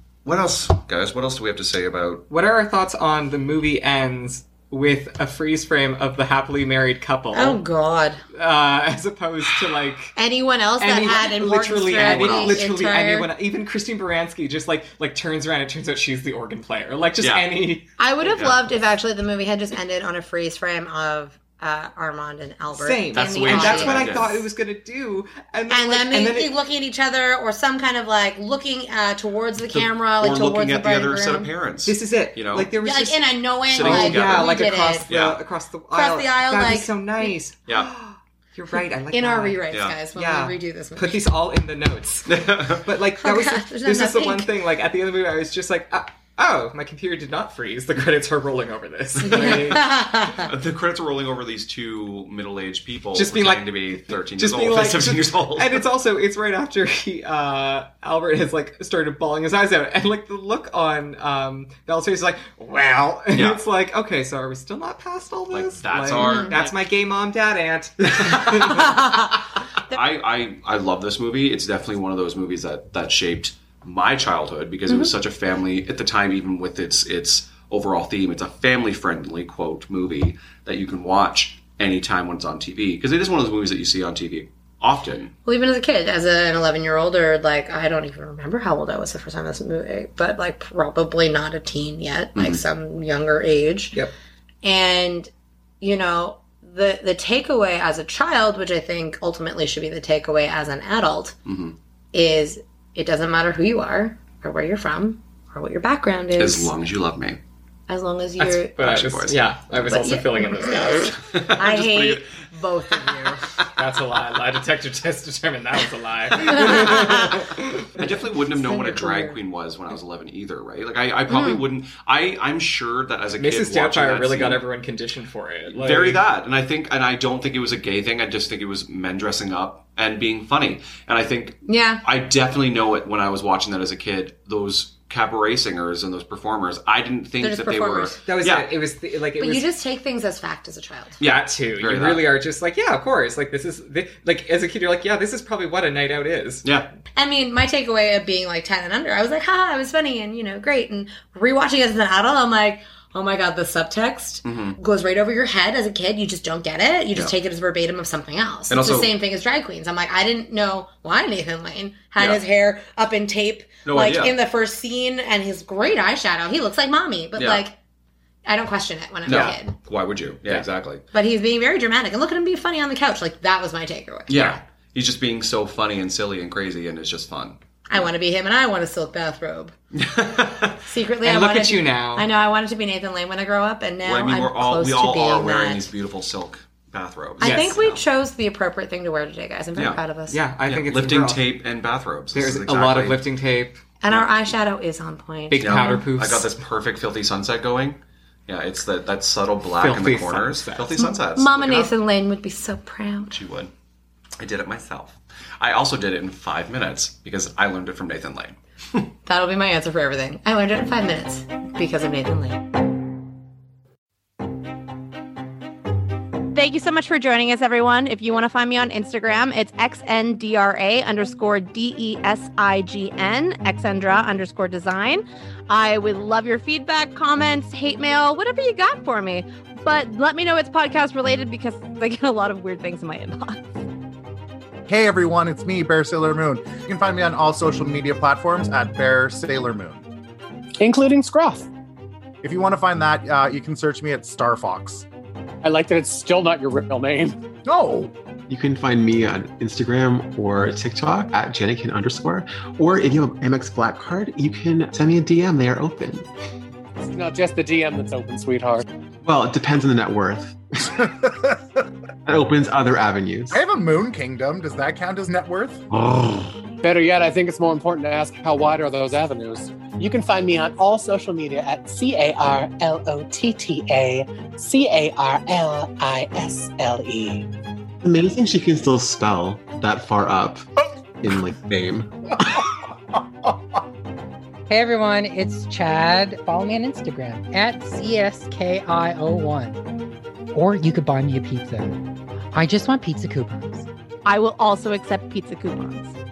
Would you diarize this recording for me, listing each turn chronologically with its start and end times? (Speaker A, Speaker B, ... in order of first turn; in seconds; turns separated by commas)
Speaker A: 0.2-2.2, Speaker B: 2.3-7.6, Speaker C: 7.3-8.2, Speaker B: 8.3-10.2, Speaker C: 10.2-13.3, Speaker B: 10.8-17.9, Speaker A: 17.2-17.5, Speaker C: 18.0-24.2, Speaker A: 18.3-18.6, Speaker B: 22.7-26.5, Speaker A: 23.1-24.4, Speaker C: 25.7-31.5, Speaker A: 29.7-32.7, Speaker B: 31.8-50.2, Speaker C: 32.8-35.1, Speaker A: 33.7-34.5, Speaker A: 35.1-35.4, Speaker C: 35.9-37.3, Speaker C: 39.1-41.2, Speaker A: 39.7-40.0, Speaker A: 42.3-42.9, Speaker C: 43.2-44.5, Speaker C: 49.2-50.5, Speaker A: 50.4-55.9, Speaker B: 53.1-69.3, Speaker A: 63.3-63.6, Speaker A: 65.5-66.8, Speaker C: 66.2-66.6, Speaker A: 69.9-85.3, Speaker C: 85.5-94.0, Speaker A: 92.4-92.6, Speaker C: 94.6-95.3, Speaker C: 95.8-101.3, Speaker A: 101.5-101.8, Speaker C: 102.1-106.7, Speaker A: 106.4-107.4, Speaker C: 107.9-108.9, Speaker B: 108.4-111.2, Speaker A: 108.8-109.9, Speaker C: 109.8-113.4, Speaker A: 111.1-112.4, Speaker A: 113.2-113.6, Speaker B: 113.8-118.0, Speaker C: 116.8-117.1, Speaker A: 118.0-124.7, Speaker C: 118.5-119.4, Speaker C: 121.3-121.6, Speaker B: 123.4-126.2, Speaker A: 125.7-138.7, Speaker C: 131.7-132.0, Speaker C: 137.4-138.2, Speaker B: 138.2-139.7, Speaker C: 139.4-141.2, Speaker A: 141.2-142.3, Speaker B: 141.2-146.7, Speaker C: 147.2-167.8, Speaker A: 154.4-154.8, Speaker A: 158.7-159.2, Speaker A: 162.2-162.4, Speaker A: 163.8-164.4, Speaker A: 167.4-167.6, Speaker C: 168.5-169.8, Speaker A: 169.3-171.1, Speaker C: 171.1-174.5, Speaker A: 174.3-178.1, Speaker C: 177.9-179.7, Speaker A: 179.9-180.8, Speaker C: 180.8-185.9, Speaker B: 181.2-182.3, Speaker A: 184.0-188.0, Speaker C: 187.4-190.4, Speaker B: 187.4-187.9, Speaker A: 189.8-190.0, Speaker B: 190.3-191.4, Speaker A: 190.6-193.3, Speaker B: 192.3-193.8, Speaker C: 194.0-196.1, Speaker A: 194.1-194.5, Speaker B: 195.5-196.5, Speaker A: 195.6-201.9, Speaker B: 199.7-200.9, Speaker C: 201.0-203.4, Speaker A: 203.3-203.7, Speaker A: 204.4-209.1, Speaker C: 209.3-212.6, Speaker C: 216.6-233.6, Speaker D: 234.9-240.0, Speaker E: 240.8-241.7, Speaker D: 242.4-245.1, Speaker E: 245.6-247.4, Speaker D: 247.7-248.1, Speaker F: 248.5-256.3, Speaker E: 257.0-258.8, Speaker F: 259.2-260.9, Speaker D: 261.1-261.6, Speaker F: 262.3-263.6, Speaker D: 263.5-265.8, Speaker F: 265.9-266.5, Speaker E: 266.8-277.5, Speaker F: 278.0-280.6, Speaker F: 281.2-282.7, Speaker G: 284.7-289.8, Speaker G: 290.5-292.0, Speaker G: 292.5-293.9, Speaker C: 294.4-296.0